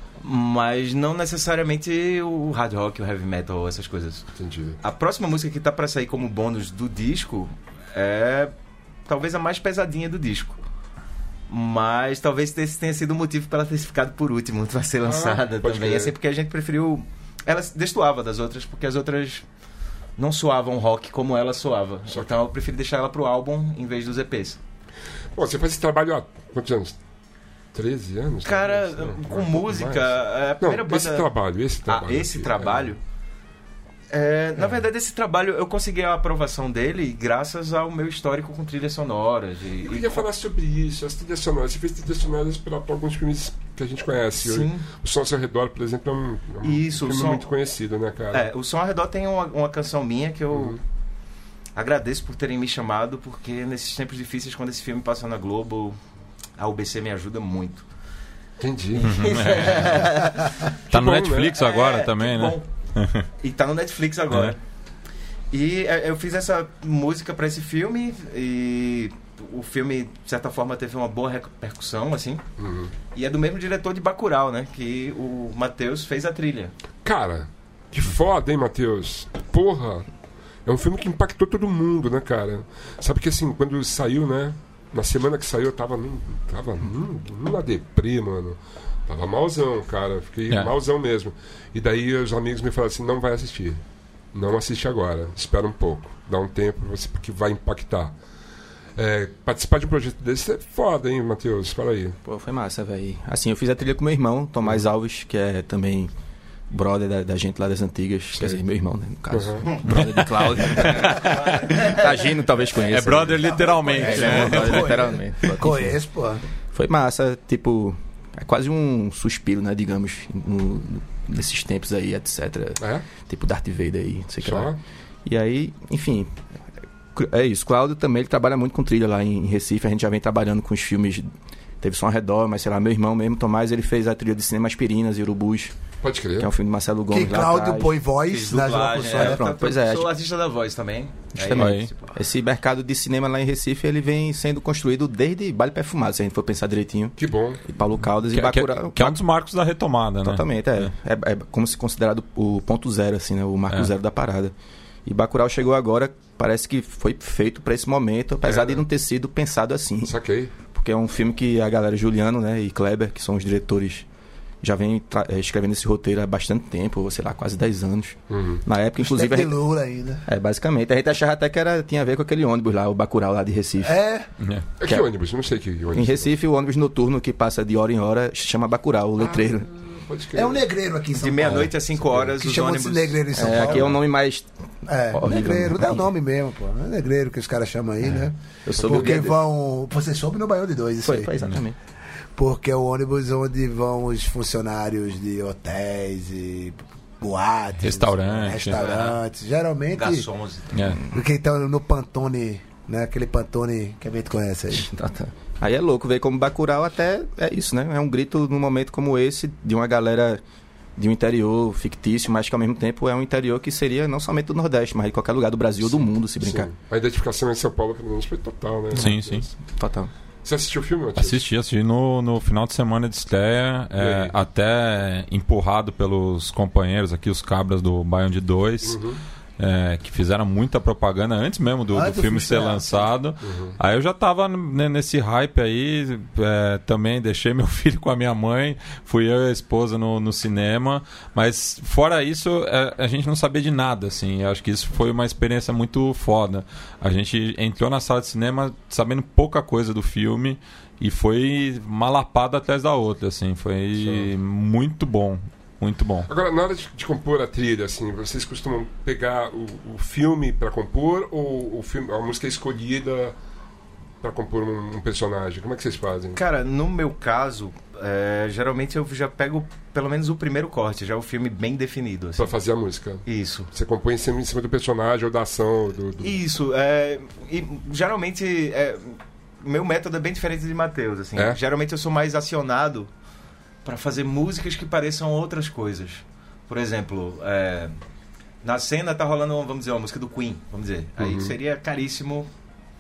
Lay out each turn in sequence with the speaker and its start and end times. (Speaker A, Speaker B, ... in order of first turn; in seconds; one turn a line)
Speaker A: 0.2-4.3
Speaker B: 4.4-4.8
Speaker A: 4.8-8.5
Speaker A: 9.1-10.6
Speaker A: 11.5-19.4
Speaker B: 15.0-16.1
Speaker A: 20.2-24.6
Speaker B: 22.1-22.4
Speaker B: 25.4-27.0
Speaker B: 27.7-33.0
Speaker A: 28.4-31.3
Speaker A: 31.9-33.0
Speaker A: 34.1-40.2
Speaker B: 39.8-48.5
Speaker A: 44.4-44.9
Speaker A: 46.6-47.5
Speaker A: 48.3-50.8
Speaker B: 50.5-50.8
Speaker A: 51.8-56.0
Speaker A: 56.6-57.9
Speaker B: 58.6-59.1
Speaker A: 59.0-60.8
Speaker C: 59.0-60.3
Speaker C: 60.9-63.3
Speaker B: 60.9-61.5
Speaker A: 61.5-62.7
Speaker A: 63.4-64.6
Speaker A: 65.5-72.4
Speaker B: 72.6-72.9
Speaker A: 73.1-76.7
Speaker B: 77.0-80.1
Speaker B: 80.7-93.8
Speaker B: 94.3-98.2
Speaker B: 99.0-102.2
Speaker D: 102.2-106.1
Speaker D: 106.7-116.0
Speaker B: 109.3-109.7
Speaker C: 109.8-111.8
Speaker A: 111.5-112.0
Speaker C: 112.8-115.2
Speaker E: 113.5-116.4
Speaker D: 116.7-126.4
Speaker B: 122.8-123.1
Speaker B: 124.4-124.8
Speaker D: 127.1-131.3
Speaker D: 131.8-135.7
Speaker B: 136.0-136.5
Speaker D: 136.4-138.0
Speaker E: 137.1-139.5
Speaker A: 138.3-142.1
Speaker D: 139.1-140.1
Speaker D: 141.3-149.2
Speaker C: 141.6-141.9
Speaker B: 147.2-147.6
Speaker C: 148.3-150.9
Speaker D: 150.2-154.5
Speaker D: 155.1-164.1
Speaker B: 158.4-158.8
Speaker B: 160.0-160.6
Speaker D: 164.6-169.6
Speaker B: 168.3-168.6
Speaker E: 169.0-170.2
Speaker D: 170.3-174.0
Speaker E: 173.8-174.3
Speaker C: 174.4-174.7
Speaker B: 174.8-176.3
Speaker D: 175.9-179.7
Speaker B: 179.4-180.6
Speaker E: 180.3-181.7
Speaker A: 181.2-183.7
Speaker E: 182.2-184.0
Speaker D: 183.3-184.5
Speaker E: 184.9-191.3
Speaker D: 185.1-186.1
Speaker D: 188.7-189.4
Speaker D: 191.0-191.8
Speaker E: 192.4-200.3
Speaker C: 197.8-198.8
Speaker A: 198.7-199.2
Speaker A: 199.9-200.8
Speaker C: 200.7-201.0
Speaker E: 201.1-204.9
Speaker D: 204.7-210.4
Speaker D: 211.0-216.7
Speaker B: 215.8-219.6
Speaker C: 218.9-219.5
Speaker D: 219.7-220.1
Speaker B: 220.4-221.4
Speaker C: 221.2-229.0
Speaker B: 224.0-224.4
Speaker B: 228.8-229.2
Speaker C: 229.6-256.3
Speaker E: 231.9-233.1
Speaker B: 233.4-233.8
Speaker B: 254.0-254.3
Speaker B: 256.3-263.4
Speaker B: 264.2-266.4
Speaker A: 266.4-272.5
Speaker B: 272.4-276.4
Speaker A: 273.2-273.7
Speaker A: 276.2-283.1
Speaker A: 283.9-288.0
Speaker A: 288.6-292.5
Speaker B: 291.2-291.5